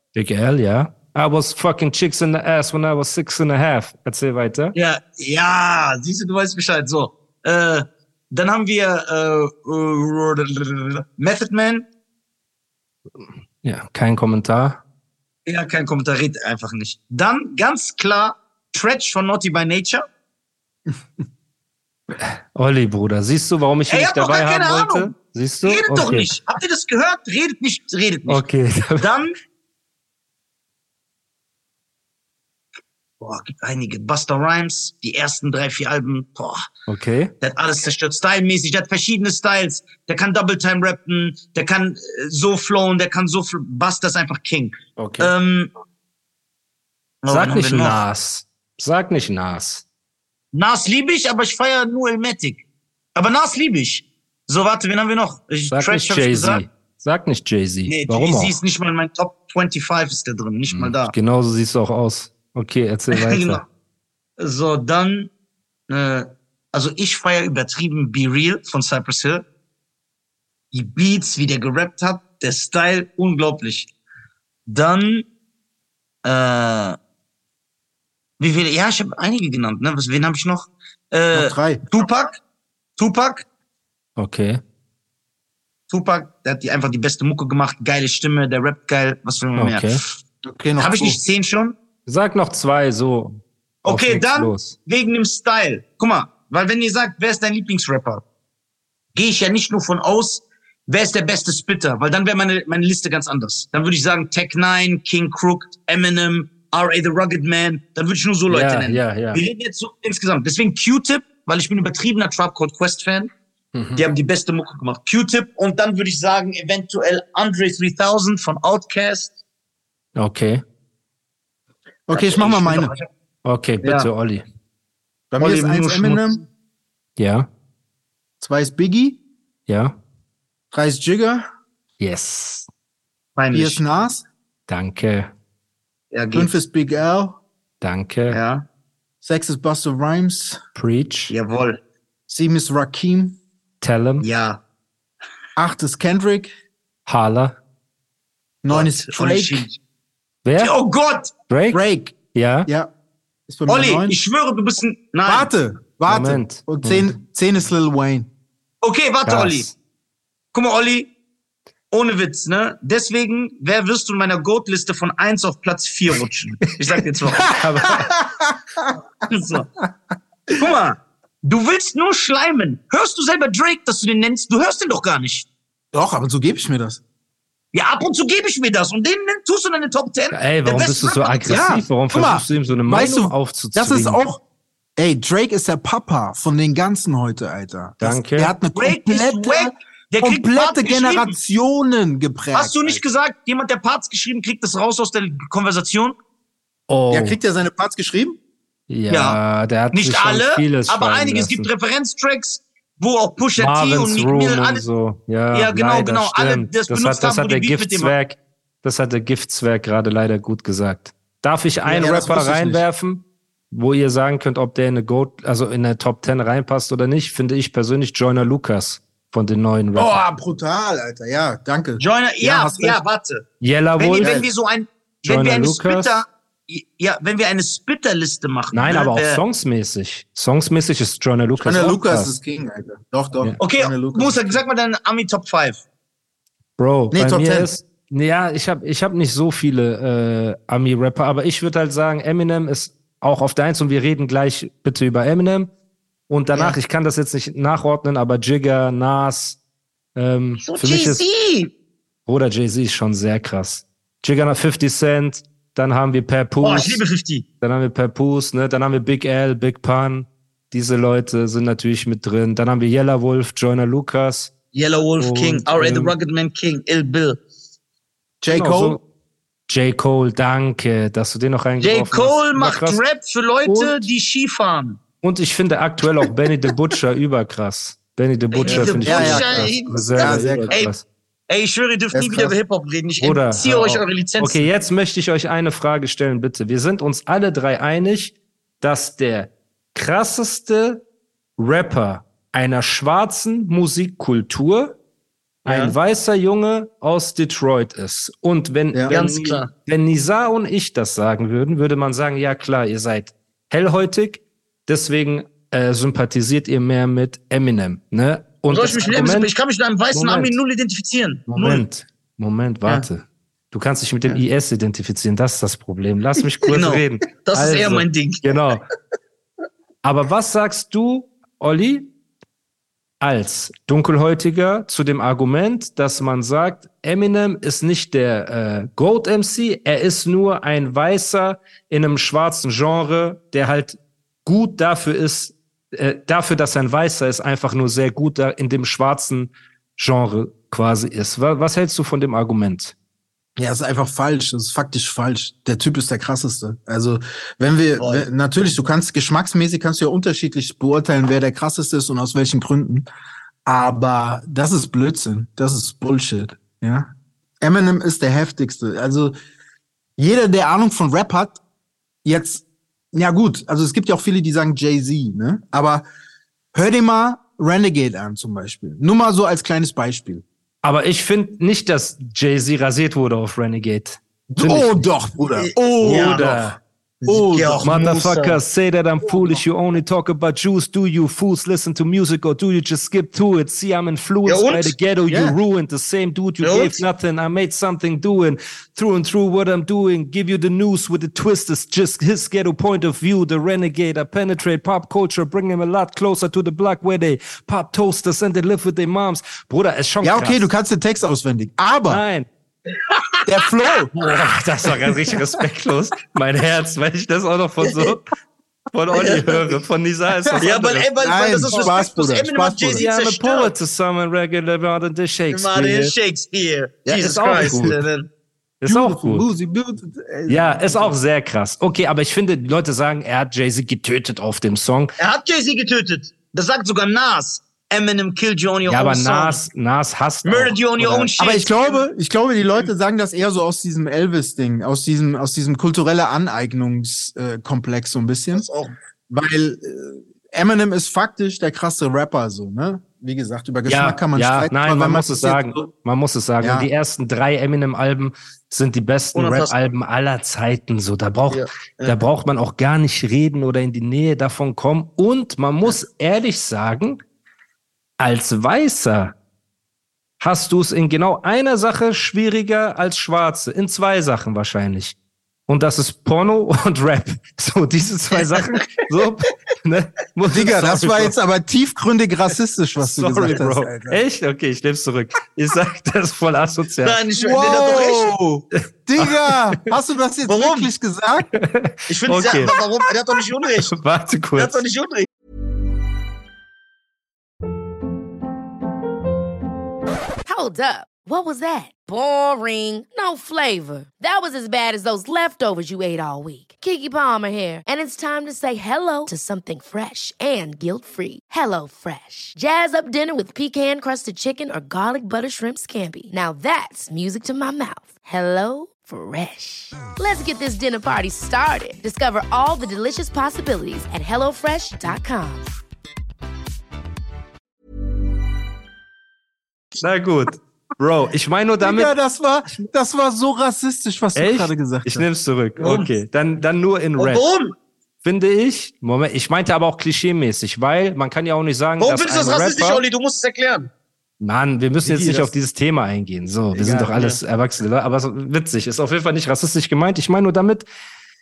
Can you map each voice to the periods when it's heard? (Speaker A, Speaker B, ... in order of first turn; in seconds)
Speaker A: 0.1-4.8, 13.6-14.8, 22.2-26.3, 28.3-29.1, 36.9-37.3, 45.0-45.3, 47.3-49.8, 55.7-58.6, 60.7-63.6, 84.2-84.6, 89.6-90.0, 92.1-94.7, 108.5-109.4, 113.7-114.1, 120.2-120.6, 123.5-124.5, 127.2-127.5, 129.7-129.9, 132.0-132.7, 134.7-135.3, 137.8-138.4, 140.8-141.3, 143.8-144.3, 147.1-147.6, 150.4-150.7, 151.5-151.8, 152.3-152.7, 156.1-157.2, 159.3-159.7, 167.4-168.1, 180.3-184.2, 188.0-188.5, 196.9-197.4, 198.9-201.7, 203.6-220.2, 223.6-224.4, 225.3-226.2, 228.7-232.3, 236.8-245.7, 246.3-249.6, 250.2-251.3, 252.3-257.0, 257.6-264.5, 265.2-266.1, 268.5-269.0, 269.7-273.0, 273.6-274.1, 275.2-281.0, 283.2-291.0, 291.6-295.0, 295.6-309.5, 310.1-310.6, 311.5-318.8, 320.0-322.1, 323.2-342.9, 370.8-375.1, 376.0-376.8, 377.8-400.7, 402.1-402.5, 404.2-408.2, 408.9-411.1, 411.7-412.0, 413.0-416.1, 417.1-418.0, 418.8-419.5, 420.5-425.1, 428.9-431.3, 443.9-457.2, 458.2-459.3, 460.4-465.2, 465.7-471.3, 473.0-477.2, 481.5-482.8, 483.8-484.8, 520.0-522.1, 524.4-527.5, 528.2-533.0, 534.4-540.9
Speaker B: 4.8-11.9, 15.5-20.0, 23.9-25.1, 25.6-28.4, 29.0-29.3, 33.2-36.6, 37.4-45.7, 47.2-48.0, 50.5-52.6, 53.2-56.6, 57.9-61.1, 63.1-63.6, 64.4-65.3, 65.9-69.5, 70.7-73.9, 74.7-75.3, 76.2-77.0, 78.4-82.4, 83.0-83.5, 85.9-89.9, 90.8-91.8, 93.8-98.2, 99.1-113.3, 114.0-119.4, 122.1-123.1, 123.8-124.1, 125.4-126.3, 133.4-133.8, 136.1-136.6, 138.3-138.6, 141.3-141.8, 144.2-144.6, 148.7-149.8, 150.6-151.3, 153.7-155.5, 158.8-159.7, 160.5-161.1, 161.9-167.9, 169.3-169.7, 170.5-175.5, 177.7-181.7, 188.7-191.3, 192.5-196.2, 199.1-199.4, 199.9-204.8, 205.5-208.1, 222.0-223.4, 224.0-229.4, 233.6-235.8, 250.6-251.7, 256.6-257.4, 264.7-267.4, 271.8-275.0, 278.5-280.9, 281.5-284.6, 295.6-296.0, 299.1-299.7, 308.7-311.8, 316.7-318.4, 348.0-348.2, 375.6-376.7, 377.2-378.6, 384.4-384.9, 386.6-387.0, 402.9-403.6, 407.8-408.2, 409.1-409.8, 410.6-413.7, 415.5-418.3, 425.2-429.6, 430.4-432.0, 438.5-438.9, 449.4-449.7, 451.5-452.2, 468.4-468.6, 477.0-478.3, 480.5-480.9, 482.1-483.9, 484.6-485.3, 525.8-526.1, 527.2-527.7, 532.0-533.9, 537.0-537.4
Speaker C: 81.3-81.8, 90.4-91.2, 122.1-122.9, 125.3-126.4, 128.4-129.2, 130.7-131.4, 133.5-134.3, 136.3-137.4, 139.2-140.6, 142.3-143.4, 145.6-146.5, 148.6-149.7, 151.7-152.2, 153.5-154.2, 155.2-158.3, 167.8-168.9, 175.9-177.0, 181.5-184.4, 185.0-193.0, 197.1-198.4, 211.8-212.8, 219.9-223.0, 224.2-224.5, 231.6-234.6, 237.1-237.7, 268.4-269.0, 278.6-280.8, 282.1-282.6, 343.6-353.1, 353.7-357.1, 357.6-359.3, 360.2-361.6, 362.2-366.0, 366.7-370.4, 374.5-376.6, 377.2-377.9, 379.3-379.6, 385.3-385.6, 400.2-402.2, 403.5-404.1, 411.2-413.1, 417.6-417.9, 418.9-421.2, 431.4-438.6, 439.3-445.9, 446.6-446.9, 470.5-474.2, 477.4-481.5, 521.8-525.3, 535.0-535.5, 536.7-537.2
Speaker D: 490.5-515.7